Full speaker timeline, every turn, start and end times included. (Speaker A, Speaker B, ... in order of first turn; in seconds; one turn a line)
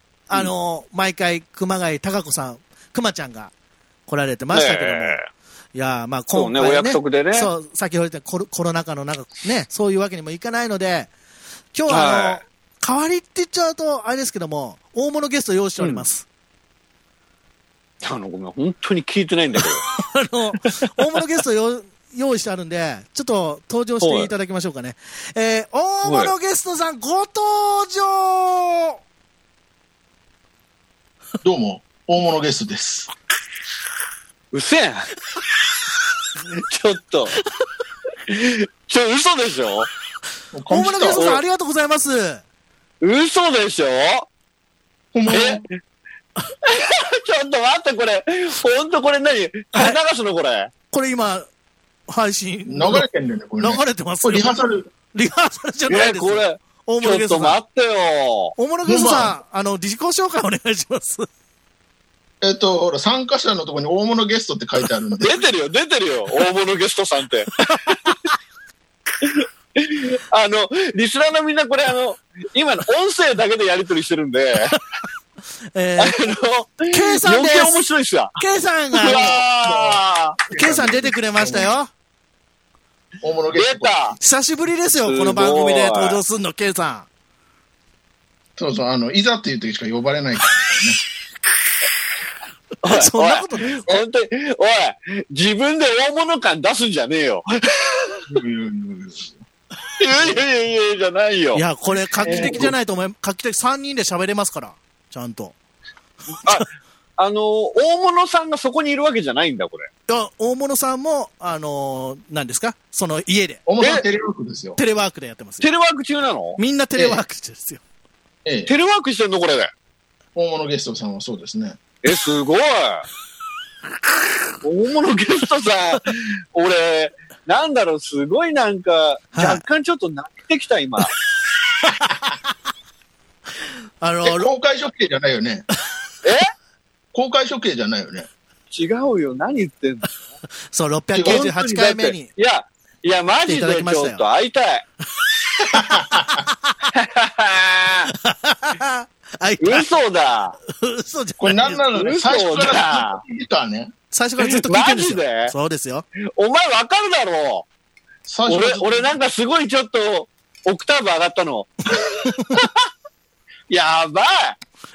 Speaker A: 0.3-3.5
Speaker A: 4.1-5.2
Speaker B: 4.5-5.3
Speaker A: 5.8-11.1
Speaker B: 6.3-7.5
Speaker A: 11.7-16.3
Speaker B: 11.9-12.4
Speaker B: 18.0-19.9
Speaker A: 19.9-29.0
Speaker B: 24.0-24.3
Speaker B: 26.0-26.3
Speaker C: 31.4-33.1
Speaker B: 34.5-35.1
Speaker B: 36.5-37.4
Speaker B: 38.3-39.9
Speaker C: 40.5-41.2
Speaker A: 40.7-42.4
Speaker B: 41.2-41.4
Speaker B: 43.0-44.3
Speaker C: 45.1-45.6
Speaker B: 45.3-45.7
Speaker B: 46.7-50.7
Speaker A: 50.9-51.5
Speaker A: 52.1-53.1
Speaker C: 52.7-54.9
Speaker A: 53.6-57.6
Speaker B: 55.9-58.5
Speaker A: 58.6-61.3
Speaker C: 58.9-59.4
Speaker C: 62.4-65.4
Speaker B: 65.2-68.2
Speaker B: 69.2-74.8
Speaker A: 75.7-76.3
Speaker B: 76.0-78.4
Speaker A: 76.9-77.8
Speaker A: 78.4-79.4
Speaker B: 78.9-80.4
Speaker C: 79.6-81.7
Speaker A: 80.6-81.9
Speaker C: 83.2-84.1
Speaker B: 83.5-84.2
Speaker A: 84.2-87.1
Speaker B: 85.1-86.2
Speaker C: 88.6-91.0
Speaker B: 92.8-98.2
Speaker A: 92.9-94.0
Speaker C: 98.3-99.4
Speaker B: 100.0-101.7
Speaker A: 101.5-105.6
Speaker B: 102.2-102.7
Speaker C: 102.2-102.7
Speaker B: 106.4-109.9
Speaker A: 110.1-113.6
Speaker C: 113.7-114.8
Speaker A: 114.8-115.7
Speaker B: 115.6-116.6
Speaker A: 116.6-117.8
Speaker C: 117.0-117.2
Speaker C: 118.5-118.7
Speaker B: 118.7-119.7
Speaker C: 120.3-121.8
Speaker B: 122.0-123.1
Speaker B: 124.6-131.2
Speaker A: 129.3-129.6
Speaker A: 134.0-134.5
Speaker C: 134.2-135.7
Speaker C: 137.1-138.3
Speaker B: 138.7-140.3
Speaker A: 140.7-142.3
Speaker C: 141.1-141.5
Speaker B: 141.2-144.8
Speaker A: 143.5-144.2
Speaker C: 145.7-146.4
Speaker A: 146.2-146.5
Speaker B: 146.9-148.1
Speaker A: 148.2-149.9
Speaker B: 149.6-150.6
Speaker A: 150.7-151.8
Speaker C: 151.4-153.9
Speaker B: 151.9-153.2
Speaker A: 154.1-156.1
Speaker B: 154.4-155.5
Speaker B: 156.4-157.7
Speaker C: 158.3-159.1
Speaker B: 158.5-162.7
Speaker B: 163.7-164.6